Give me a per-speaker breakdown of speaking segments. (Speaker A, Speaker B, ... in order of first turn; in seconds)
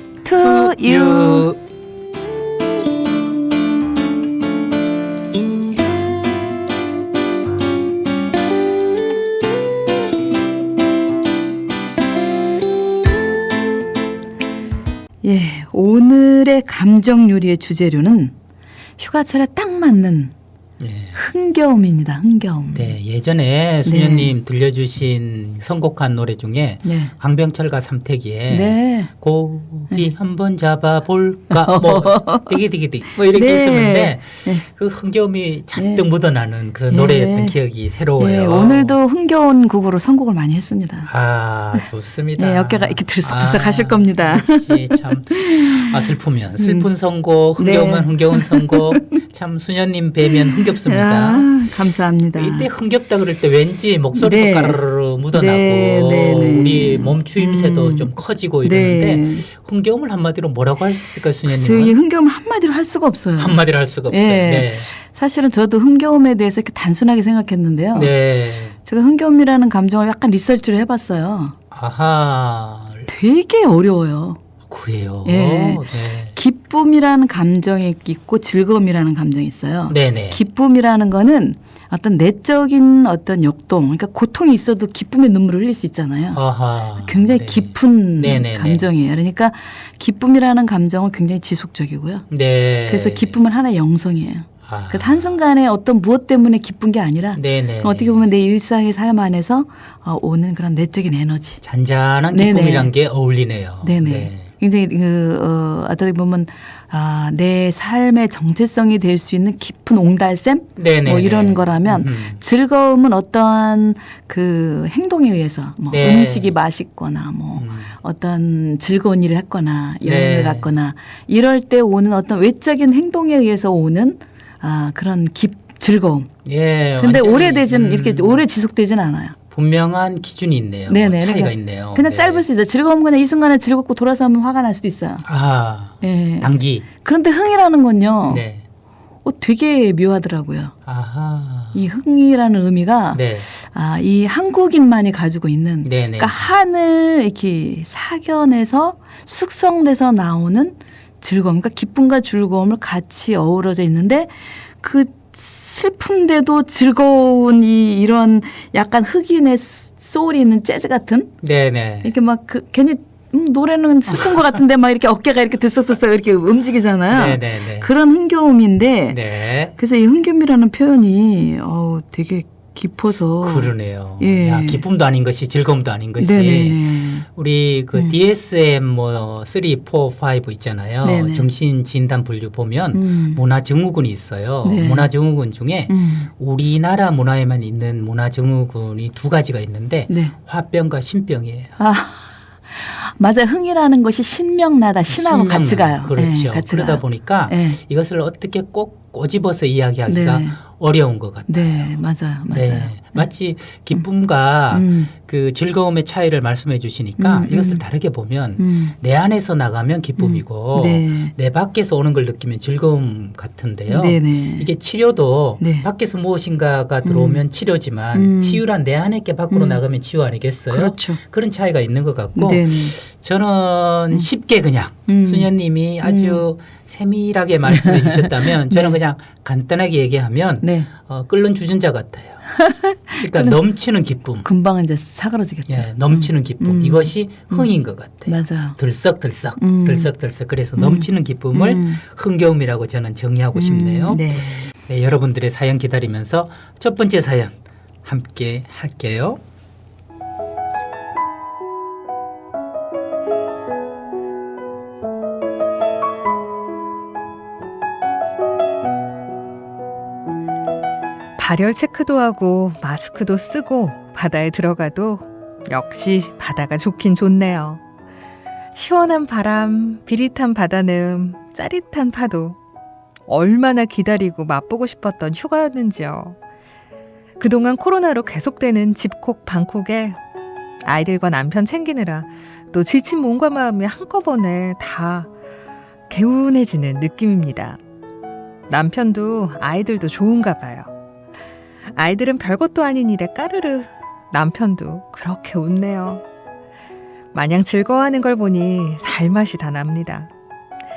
Speaker A: 0.2-1.5, 15.2-18.3, 19.0-20.3, 21.1-23.0, 23.9-24.3, 26.8-27.1, 28.5-29.1, 31.5-32.6, 33.3-34.6, 35.8-36.0, 36.9-37.6, 38.2-41.1, 41.8-46.9, 47.6-49.1, 50.3-52.7, 54.2-58.1, 58.6-59.5, 61.4-68.1, 68.8-71.5, 73.1-74.4, 75.2-86.4, 87.0-92.3, 92.9-101.6, 102.3-102.9, 103.8-126.3, 127.0-129.4, 130.9-135.3, 136.0-138.4, 139.2-140.7, 141.7-161.3, 162.0-174.8, 176.2-177.3, 181.0-181.5, 182.9-183.4, 184.6-185.1, 185.9-186.3, 190.1-190.4, 191.8-197.8, 200.1-200.6, 201.5-203.3, 204.7-205.1, 207.2-207.8, 208.6-208.9, 210.2-211.3, 213.9-214.7, 215.6-215.9, 217.0-217.4, 218.1-218.6, 219.5-219.8, 220.7-221.2, 222.3-222.9, 225.1-226.4, 227.7-229.0, 230.6-230.9, 232.5-233.6, 234.4-237.7, 238.3-238.8, 239.6-240.1, 240.8-242.0, 243.6-244.7
Speaker B: 0.4-1.6, 20.8-21.2, 22.7-39.0, 41.1-51.6, 52.3-61.9, 63.4-64.9, 67.9-68.8, 71.7-73.1, 74.7-76.3, 79.9-80.4, 86.3-88.9, 92.3-93.4, 94.7-95.3, 97.4-98.3, 101.6-104.5, 110.8-112.4, 115.9-116.5, 117.6-118.0, 120.0-120.7, 126.5-128.4, 129.5-132.4, 135.2-136.9, 138.3-138.6, 140.9-141.9, 143.1-143.5, 145.8-146.5, 161.4-162.1, 167.1-167.9, 169.1-169.8, 173.4-191.8, 195.1-201.9, 202.5-232.4, 233.2-234.5, 235.7-249.4
Speaker C: 261.4-267.8, 268.7-272.6, 273.3-276.4, 277.4-280.2, 280.8-285.3, 286.1-287.8, 288.7-290.9, 291.9-296.2, 297.3-300.3